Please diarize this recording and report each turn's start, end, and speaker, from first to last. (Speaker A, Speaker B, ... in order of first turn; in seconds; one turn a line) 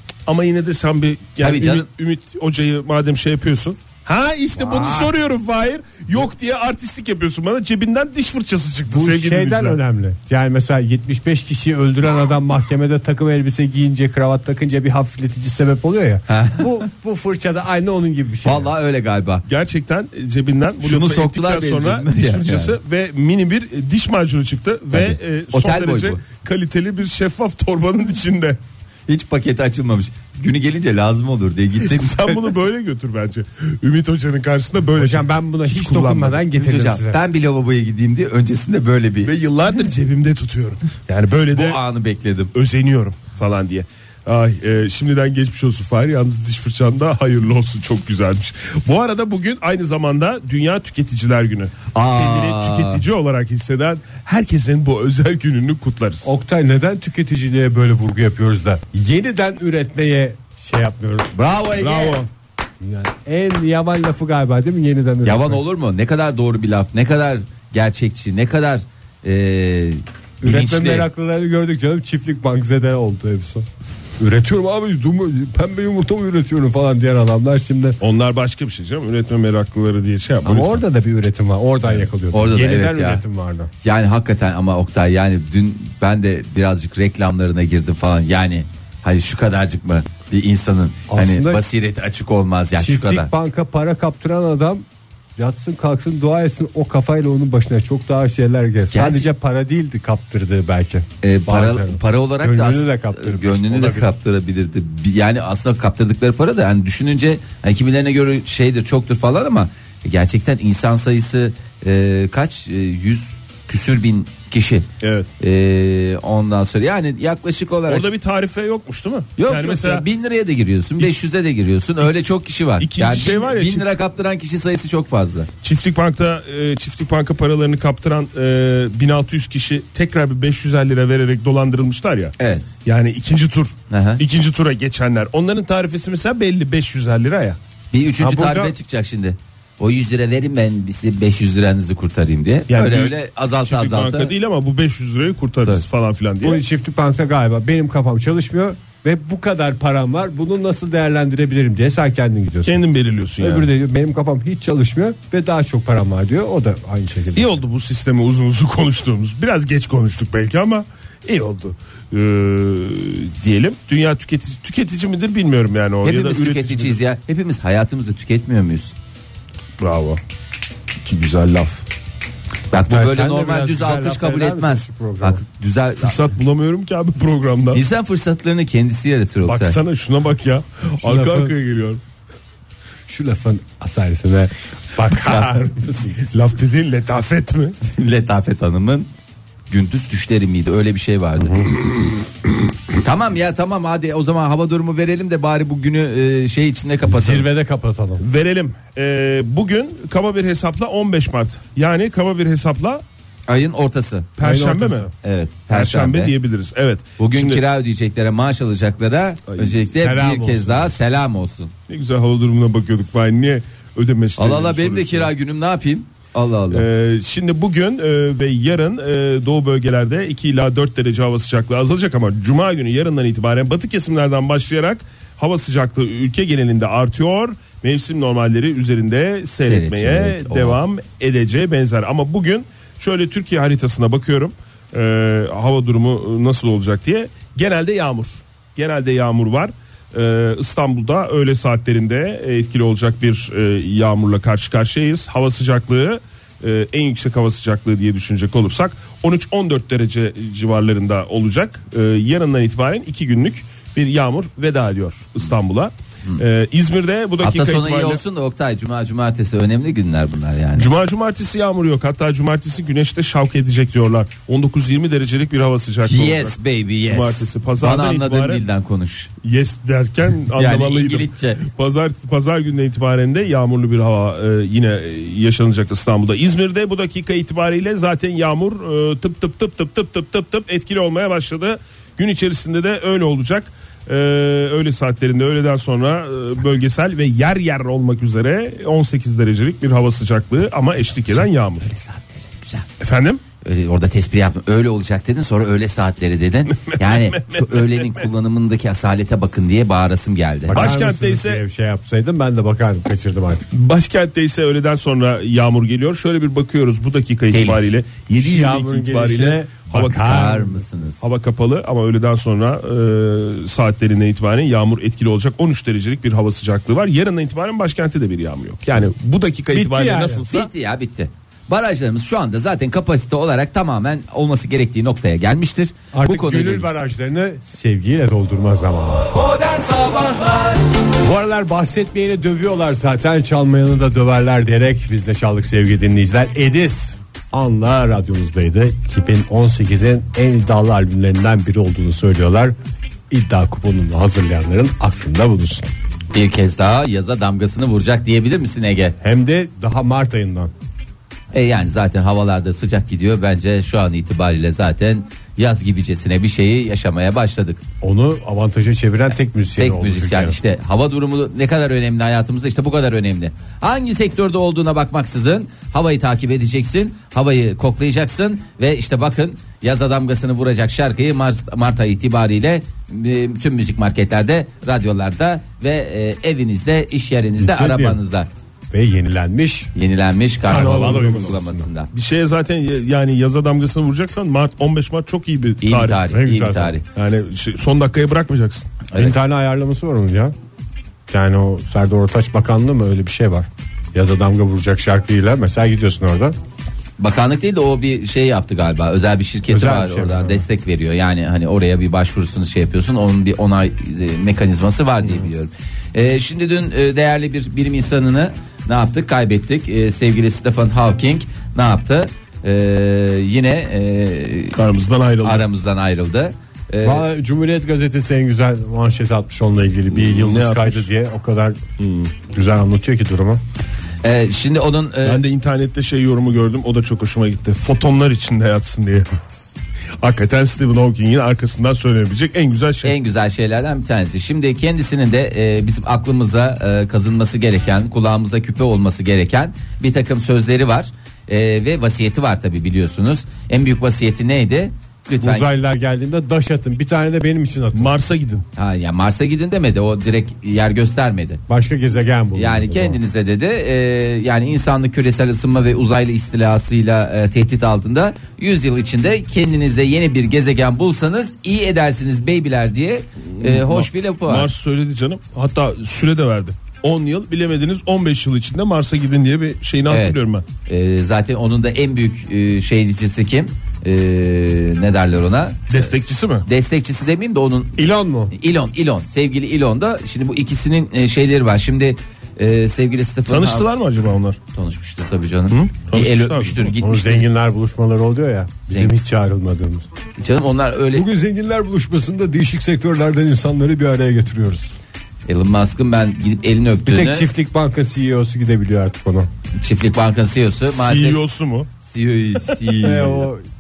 Speaker A: 0.3-9.8
Speaker B: 1.4-1.9
Speaker C: 4.7-5.0
Speaker C: 8.9-18.7
Speaker B: 16.3-16.8
Speaker B: 18.4-19.4
Speaker A: 19.5-28.6
Speaker B: 20.8-22.8
Speaker B: 24.9-26.2
Speaker B: 29.1-32.5
Speaker A: 31.8-36.4
Speaker C: 35.0-37.2
Speaker B: 36.5-39.3
Speaker A: 39.2-41.8
Speaker B: 41.5-42.5
Speaker A: 42.5-56.3
Speaker B: 51.9-53.0
Speaker C: 56.2-61.3
Speaker B: 61.3-62.2
Speaker A: 61.8-62.3
Speaker C: 62.8-65.6
Speaker B: 65.2-71.1
Speaker C: 70.4-73.7
Speaker C: 74.2-78.0
Speaker A: 78.0-80.8
Speaker C: 80.4-83.7
Speaker B: 82.3-83.2
Speaker B: 83.8-93.3
Speaker C: 91.1-91.6
Speaker C: 92.8-94.8
Speaker C: 95.4-104.1
Speaker B: 98.9-99.3
Speaker B: 101.2-114.9
Speaker A: 115.0-115.3
Speaker B: 115.4-118.0
Speaker A: 117.9-120.1
Speaker B: 119.4-125.5
Speaker A: 122.8-123.9
Speaker A: 125.6-137.6
Speaker B: 132.4-132.7
Speaker B: 133.9-134.2
Speaker B: 137.9-144.3
Speaker C: 138.2-138.8
Speaker A: 142.7-146.6
Speaker C: 146.4-152.8
Speaker A: 152.7-153.7
Speaker C: 153.4-157.6
Speaker A: 157.3-167.0
Speaker B: 166.0-168.9
Speaker A: 169.8-170.2
Speaker A: 171.0-171.8
Speaker B: 172.7-176.2
Speaker C: 172.9-175.4
Speaker A: 176.0-177.8
Speaker B: 177.7-179.8
Speaker A: 179.4-182.0
Speaker C: 181.0-181.5
Speaker C: 183.1-186.3
Speaker A: 186.3-187.8
Speaker B: 187.8-189.1
Speaker B: 189.7-191.7
Speaker C: 191.4-191.7
Speaker B: 193.0-197.5
Speaker C: 197.1-198.2
Speaker A: 198.2-203.0
Speaker B: 203.5-204.3
Speaker A: 204.4-205.1
Speaker C: 204.4-205.1
Speaker B: 205.2-206.3
Speaker A: 205.7-207.6
Speaker B: 207.2-211.7
Speaker A: 209.5-209.8
Speaker C: 209.9-210.9
Speaker A: 211.9-215.3
Speaker B: 214.4-216.9
Speaker A: 216.7-258.2
Speaker B: 229.6-230.8
Speaker B: 257.4-260.9
Speaker A: 260.8-266.6
Speaker B: 266.0-269.3
Speaker A: 267.1-268.6
Speaker A: 269.4-291.9
Speaker B: 270.6-271.7
Speaker B: 291.3-292.9
Speaker A: 293.0-293.4
Speaker B: 293.6-300.9
Speaker A: 296.8-298.2
Speaker C: 300.7-303.7
Speaker A: 300.7-301.6
Speaker A: 303.7-310.5
Speaker B: 307.5-307.9
Speaker C: 308.4-310.9
Speaker B: 310.2-311.2
Speaker A: 311.2-320.7
Speaker C: 319.7-320.5
Speaker B: 320.5-326.9
Speaker C: 326.1-329.4
Speaker B: 329.7-330.2
Speaker C: 331.2-342.8
Speaker C: 343.3-345.9
Speaker B: 346.3-349.2
Speaker C: 349.2-350.7
Speaker B: 351.5-357.8
Speaker C: 358.0-360.6
Speaker B: 359.8-378.5
Speaker A: 377.6-378.0
Speaker C: 377.8-378.1
Speaker C: 378.9-379.9
Speaker B: 379.9-382.1
Speaker C: 380.6-381.9
Speaker A: 380.7-381.6
Speaker A: 382.1-386.2
Speaker B: 385.8-387.0
Speaker C: 386.3-387.0
Speaker A: 387.1-388.9
Speaker B: 389.1-389.4
Speaker C: 389.1-390.5
Speaker C: 391.3-396.6
Speaker B: 397.2-414.8
Speaker C: 399.7-400.6
Speaker A: 414.8-415.7
Speaker B: 415.4-417.3
Speaker C: 417.0-421.8
Speaker A: 420.1-421.1
Speaker A: 422.0-422.3
Speaker C: 422.4-423.6
Speaker B: 424.2-425.4
Speaker A: 425.2-429.3
Speaker A: 430.2-433.1
Speaker B: 433.0-445.7
Speaker C: 445.4-448.1
Speaker A: 447.9-448.6
Speaker B: 448.8-451.6
Speaker C: 451.7-453.2
Speaker B: 452.6-464.7
Speaker A: 463.6-470.6
Speaker B: 470.1-476.1
Speaker A: 475.9-476.7
Speaker B: 476.6-483.9
Speaker C: 478.0-478.5
Speaker A: 483.5-484.6
Speaker B: 484.7-487.5
Speaker A: 485.7-486.9
Speaker C: 487.0-490.1
Speaker B: 488.9-489.2
Speaker B: 490.4-491.3
Speaker C: 491.1-495.0
Speaker B: 495.5-497.5
Speaker C: 497.1-499.5
Speaker B: 499.8-501.4
Speaker A: 500.9-501.9
Speaker B: 502.0-503.5
Speaker C: 502.9-503.6